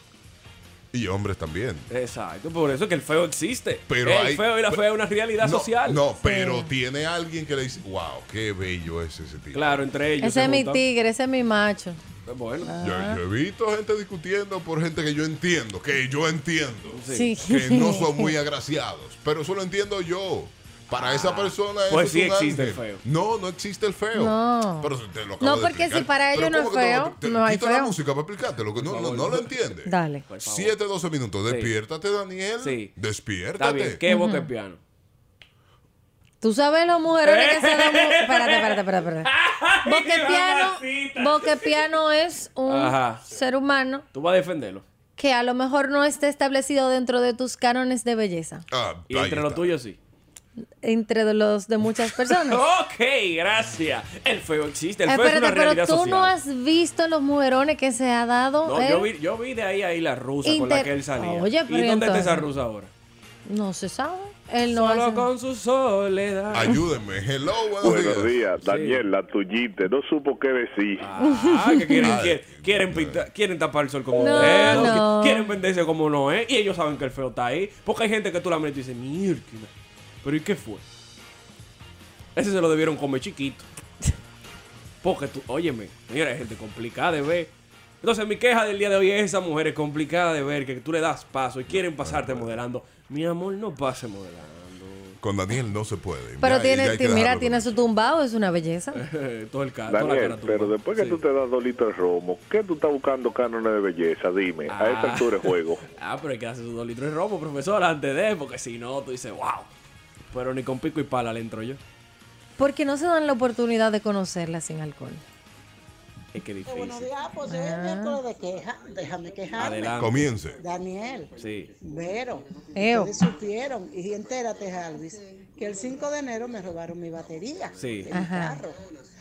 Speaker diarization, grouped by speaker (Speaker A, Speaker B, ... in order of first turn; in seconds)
Speaker A: 0.9-1.9, 3.9-4.8, 5.4-9.8, 12.8-34.0, 48.7-49.6, 66.5-68.3, 72.0-73.2, 91.7-92.5, 95.2-97.7, 120.0-120.6
Speaker B: 1.9-6.0, 9.5-10.8, 12.3-12.7, 16.9-17.3, 20.9-23.0, 28.8-29.5, 30.3-30.8, 31.5-31.7, 32.6-32.9, 33.6-34.8, 37.2-41.8, 42.7-43.2, 44.1-44.8, 49.1-50.0, 52.3-56.3, 58.6-62.9, 64.7-66.8, 68.6-69.0, 71.0-79.7, 80.2-80.8, 82.3-83.7, 85.0-95.2, 98.9-101.2, 104.7-109.7, 110.3-111.8, 116.3-117.1, 119.6-120.3, 121.4-121.7, 127.8-128.1
Speaker C: 6.2-6.7, 10.2-12.0, 12.7-13.2, 17.1-18.4, 24.1-27.9, 29.9-30.3, 34.1-34.5, 36.4-39.3, 39.9-44.0, 45.2-48.6, 50.8-52.6, 55.1-59.1, 60.4-62.5, 63.5-65.3, 71.2-72.2, 74.2-75.5, 96.4-99.0, 112.6-115.2, 117.5-118.2, 122.8-123.2, 128.1-128.6
Speaker D: 67.8-71.1, 99.9-105.8
Speaker E: 116.7-120.1, 120.6-128.8